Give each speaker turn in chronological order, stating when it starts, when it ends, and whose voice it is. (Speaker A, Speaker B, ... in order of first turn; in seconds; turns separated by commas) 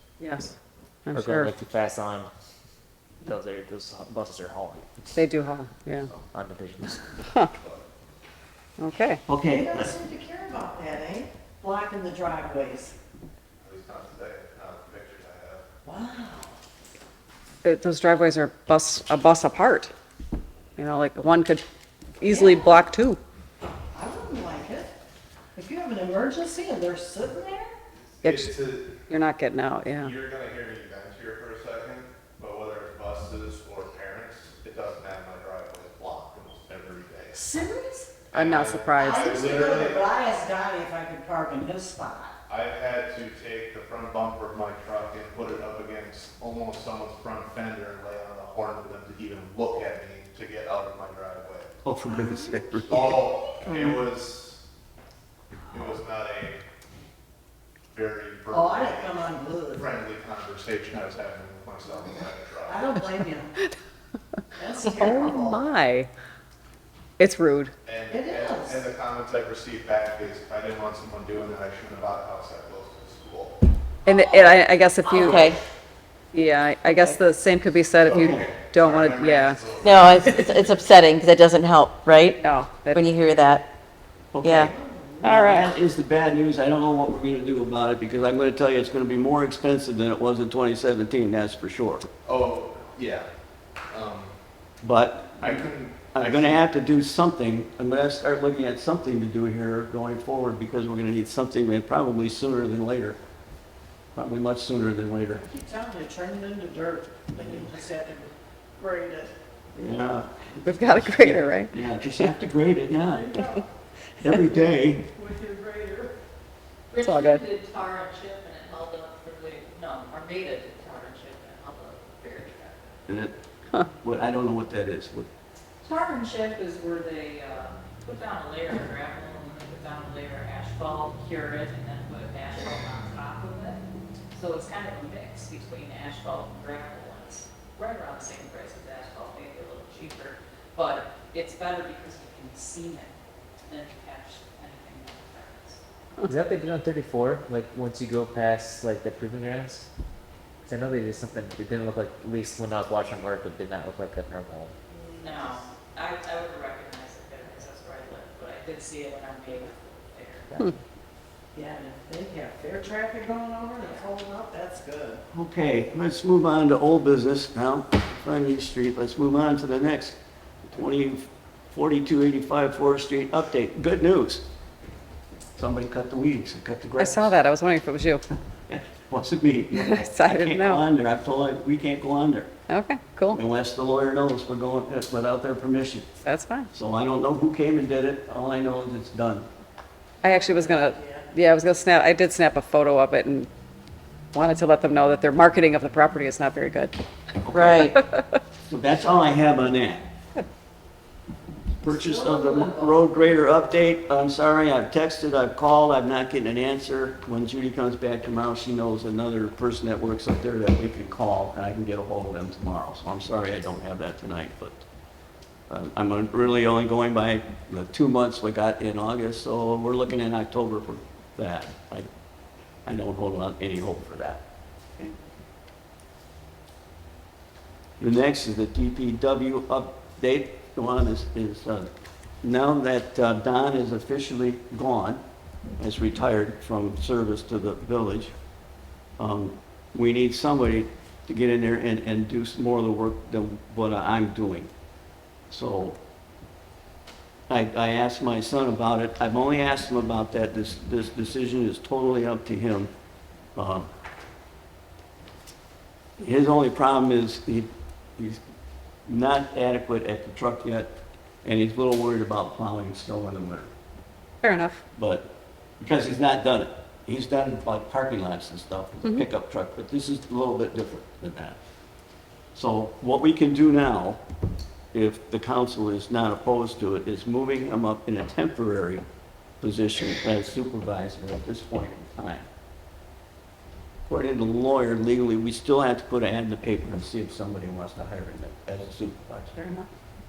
Speaker A: 0.2-0.5, Speaker A: 1.1-1.5, Speaker B: 1.1-2.3, Speaker B: 3.2-5.2, Speaker A: 5.2-6.1, Speaker B: 6.2-7.0, Speaker C: 7.5-7.8, Speaker A: 8.8-9.2, Speaker D: 9.3-10.0, Speaker E: 9.5-12.9, Speaker C: 13.6-15.7, Speaker E: 15.8-16.5, Speaker A: 17.6-19.9, Speaker A: 20.8-21.6, Speaker A: 22.2-23.2, Speaker E: 22.3-22.9, Speaker E: 23.9-24.9, Speaker E: 25.6-27.7, Speaker C: 28.2-29.0, Speaker A: 28.2-28.5, Speaker A: 29.1-30.1, Speaker C: 30.0-37.5, Speaker E: 37.4-38.3, Speaker A: 38.3-39.4, Speaker C: 38.3-40.0, Speaker E: 39.0-42.3, Speaker C: 42.5-51.7, Speaker D: 51.8-53.3, Speaker C: 52.9-54.6, Speaker C: 55.7-56.6, Speaker C: 57.9-62.8, Speaker E: 58.5-59.9, Speaker E: 62.6-63.5, Speaker E: 64.6-65.6, Speaker C: 64.9-65.6, Speaker A: 65.0-66.1, Speaker A: 67.2-67.7, Speaker C: 67.8-73.6, Speaker E: 68.1-68.9, Speaker A: 74.1-75.5, Speaker E: 74.1-75.4, Speaker F: 75.3-75.6, Speaker A: 76.3-80.4, Speaker D: 76.8-77.2, Speaker C: 78.0-80.5, Speaker D: 78.1-78.5, Speaker F: 79.8-82.4, Speaker A: 82.4-83.1, Speaker F: 82.9-83.7, Speaker D: 84.3-84.7, Speaker F: 84.4-84.7, Speaker E: 84.6-85.5, Speaker A: 85.2-85.7, Speaker D: 85.3-92.1, Speaker C: 92.3-93.3, Speaker C: 93.9-94.3, Speaker D: 94.8-103.2, Speaker C: 95.4-96.6, Speaker D: 104.2-105.4, Speaker E: 105.3-109.3, Speaker D: 109.8-113.4, Speaker A: 110.7-111.7, Speaker E: 113.1-113.6, Speaker D: 114.2-115.1, Speaker E: 115.1-116.2, Speaker G: 116.9-122.8, Speaker A: 117.0-117.5, Speaker D: 123.1-125.3, Speaker G: 125.8-133.8, Speaker G: 134.3-143.1, Speaker G: 143.7-145.8, Speaker B: 146.2-149.9, Speaker B: 150.7-154.7, Speaker E: 154.9-155.6, Speaker G: 155.2-160.7, Speaker E: 161.6-165.2, Speaker D: 165.3-174.4, Speaker D: 175.6-177.4, Speaker A: 177.0-178.2, Speaker D: 178.7-182.5, Speaker A: 179.7-180.8, Speaker A: 182.7-183.4, Speaker D: 183.3-186.1, Speaker A: 186.2-186.7, Speaker D: 186.7-189.5, Speaker E: 190.2-191.3, Speaker A: 190.2-193.5, Speaker A: 194.3-196.9, Speaker D: 197.4-198.0, Speaker F: 197.5-197.9, Speaker A: 197.8-198.2, Speaker D: 198.7-200.1, Speaker D: 201.8-214.8, Speaker E: 202.5-202.8, Speaker D: 215.7-222.1, Speaker D: 222.8-224.4, Speaker D: 228.0-231.9, Speaker D: 232.4-235.2, Speaker D: 235.8-238.3, Speaker D: 239.2-244.7, Speaker D: 245.5-246.0, Speaker D: 247.5-252.9, Speaker D: 253.6-253.9, Speaker D: 256.2-258.4, Speaker D: 259.1-260.9, Speaker D: 261.4-263.7, Speaker A: 264.4-264.8, Speaker D: 264.9-265.3, Speaker D: 265.8-271.6, Speaker D: 272.6-274.2, Speaker D: 274.9-279.0, Speaker D: 279.6-282.5, Speaker D: 284.1-289.8